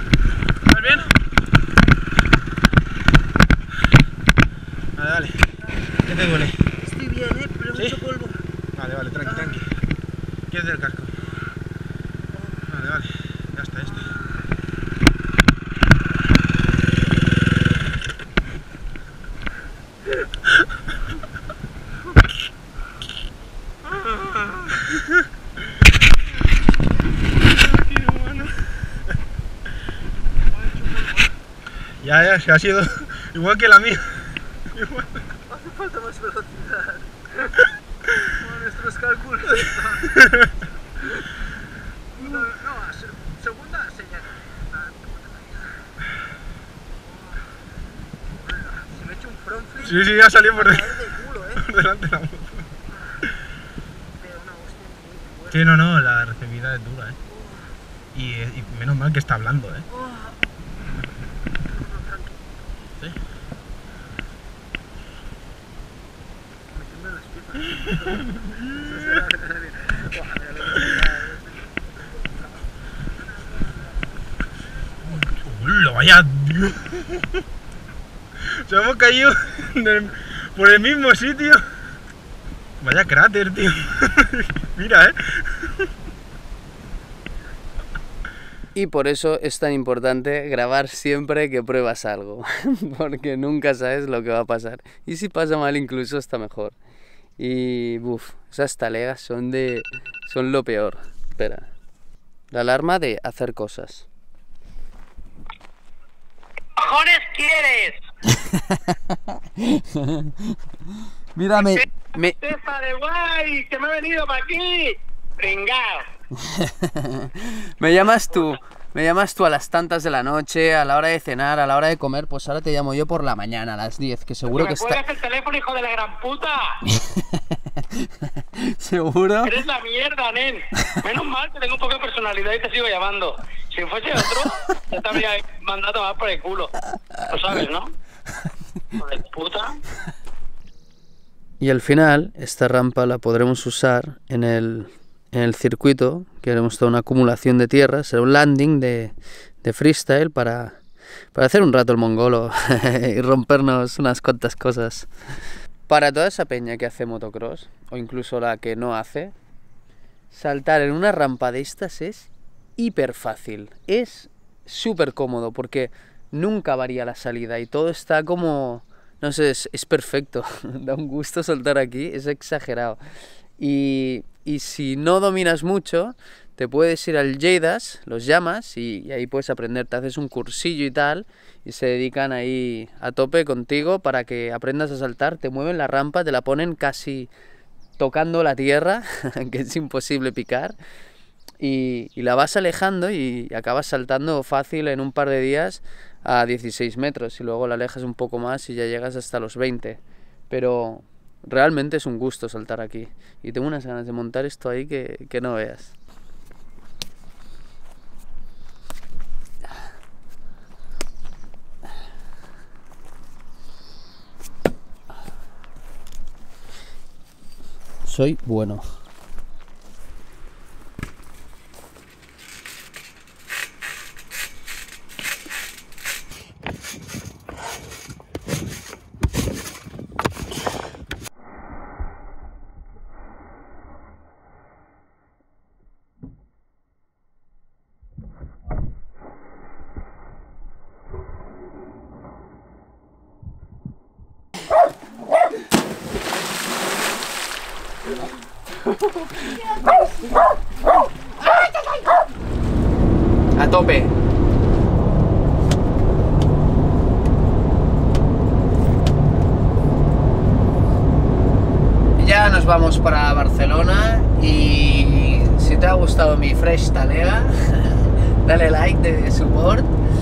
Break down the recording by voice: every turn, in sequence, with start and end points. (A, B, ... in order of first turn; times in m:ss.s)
0:00.7-0:01.1 A
0:05.0-0:05.5 A
0:06.0-0:06.7 A
0:06.8-0:08.4 B
0:07.8-0:08.0 A
0:08.8-0:09.8 A
0:09.3-0:09.6 B
0:10.5-0:11.2 A
0:12.7-0:14.1 A
0:27.5-0:28.7 A
0:30.8-0:31.3 B
0:32.0-0:35.2 A
0:35.5-0:37.5 B
0:38.2-0:40.2 B
0:40.1-0:40.5 A
0:42.2-0:45.7 B
0:48.4-0:49.9 B
0:49.8-0:52.7 A
0:50.6-0:51.5 B
0:54.2-0:55.6 B
0:55.5-0:57.2 A
0:58.1-0:59.9 A
1:00.0-1:00.3 B
1:01.7-1:02.4 B
1:06.7-1:11.6 B
1:08.5-1:09.2 A
1:15.0-1:17.4 A
1:18.4-1:21.7 A
1:22.8-1:25.8 A
1:28.8-1:36.8 C
1:37.4-1:41.7 C
1:42.5-1:44.1 C
1:46.8-1:48.0 D
1:48.3-1:50.6 C
1:51.4-1:52.4 C
1:51.6-1:56.1 D
1:56.4-2:05.1 C
2:04.5-2:06.8 D
2:06.9-2:09.6 C
2:09.4-2:16.7 D
2:17.3-2:17.9 D
2:19.0-2:19.8 D
2:21.6-2:30.8 C
2:31.3-2:35.1 C
2:35.9-2:39.3 C
2:40.3-2:53.0 C
2:53.6-3:07.3 C
3:08.0-3:10.8 C
3:11.6-3:26.0 C
3:38.0-3:38.9 C
4:09.0-4:09.7 C
4:13.6-4:14.1 C
4:22.2-4:29.9 C